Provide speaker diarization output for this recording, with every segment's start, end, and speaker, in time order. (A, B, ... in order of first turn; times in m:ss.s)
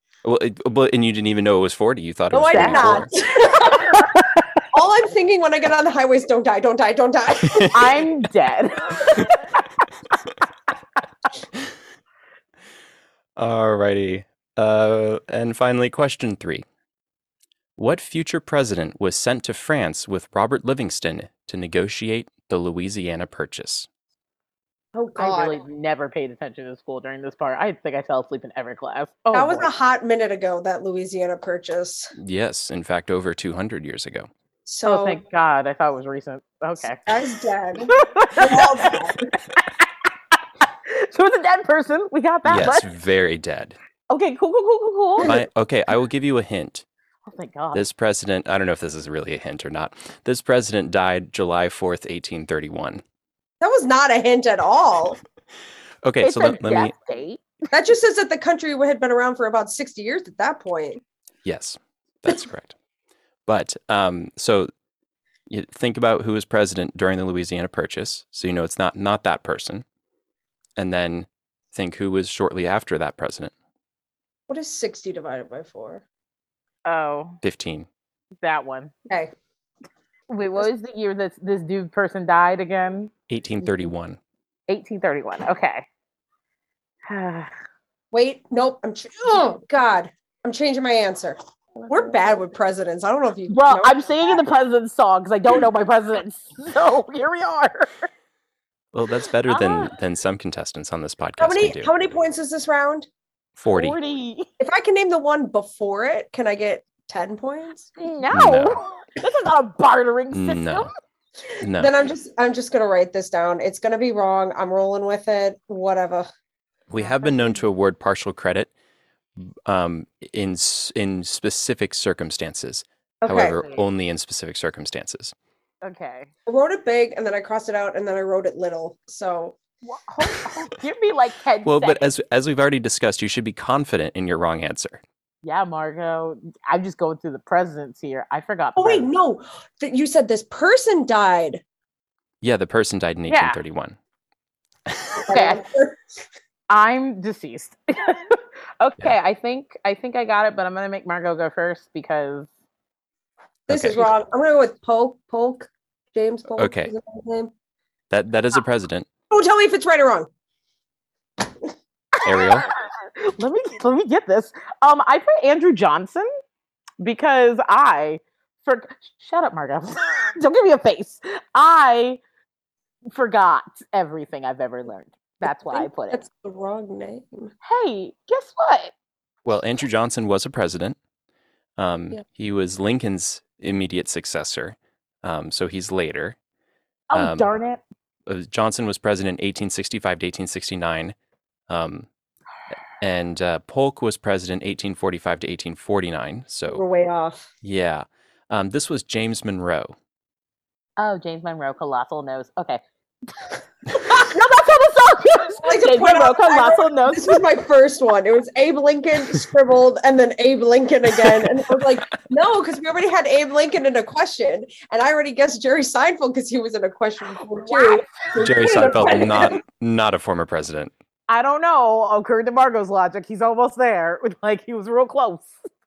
0:00.2-0:03.1 A
0:02.3-0:04.1 B
0:02.5-0:04.6 C
0:04.7-0:08.0 B
0:07.4-0:07.7 A
0:07.7-0:09.6 C
0:13.4-0:16.6 A
0:17.8-0:23.9 A
0:24.9-0:25.6 B
0:25.2-0:29.7 C
0:29.3-0:32.1 B
0:32.2-0:34.3 A
0:34.7-0:35.2 B
0:34.8-0:37.1 C
0:37.1-0:39.3 B
0:37.9-0:40.1 C
0:40.8-0:42.9 C
0:42.4-0:43.8 A
0:44.1-0:45.3 C
0:45.2-0:46.8 A
0:47.3-0:47.8 C
0:47.7-0:53.0 A
0:53.6-0:55.2 B
0:56.0-0:56.9 A
0:56.2-0:57.4 C
0:57.7-1:01.0 B
1:01.4-1:02.8 A
1:03.5-1:04.7 A
1:05.5-1:09.8 A
1:10.8-1:13.5 A
1:14.5-1:16.0 B
1:16.9-1:17.4 C
1:17.4-1:17.9 A
1:18.4-1:18.9 C
1:20.3-1:23.1 C
1:23.3-1:24.2 A
1:24.7-1:25.9 C
1:27.1-1:27.5 C
1:28.1-1:31.4 B
1:31.8-1:32.2 C
1:31.9-1:34.4 B
1:33.5-1:38.1 C
1:38.9-1:41.9 A
1:39.5-1:39.9 C
1:41.4-1:43.1 B
1:43.6-1:44.0 A
1:43.7-1:44.5 C
1:44.6-1:47.9 B
1:48.0-1:50.9 C
1:48.3-1:48.8 A
1:50.3-1:50.9 A
1:51.6-1:52.0 A
1:51.8-1:56.3 B
1:56.9-1:58.7 A
1:57.0-1:57.6 C
1:59.4-2:05.3 A
2:03.2-2:03.6 B
2:05.8-2:06.3 C
2:06.5-2:09.6 B
2:09.8-2:12.1 C
2:11.6-2:15.0 A
2:15.4-2:19.1 C
2:18.8-2:21.6 B
2:22.4-2:24.0 A
2:23.3-2:23.6 C
2:25.2-2:26.0 B
2:25.3-2:25.6 C
2:26.7-2:32.5 C
2:33.7-2:34.1 A
2:33.7-2:37.5 B
2:36.6-2:36.9 A
2:38.1-2:39.1 A
2:39.3-2:40.3 B
2:42.2-2:42.7 A
2:43.2-2:46.3 C
2:47.0-2:52.2 C
2:53.1-2:56.2 C
2:55.4-2:57.5 B
2:57.6-2:58.9 C
2:59.4-3:01.0 A
3:01.8-3:06.4 A
3:07.1-3:07.8 C
3:07.1-3:07.5 A
3:08.3-3:11.2 A
3:11.7-3:12.1 A
3:13.0-3:16.8 A
3:16.7-3:17.5 B
3:17.6-3:20.0 A
3:21.0-3:22.8 C
3:23.4-3:27.4 C
3:25.5-3:39.6 B
3:37.7-3:38.5 C
3:38.4-3:40.9 A
3:41.3-3:45.5 C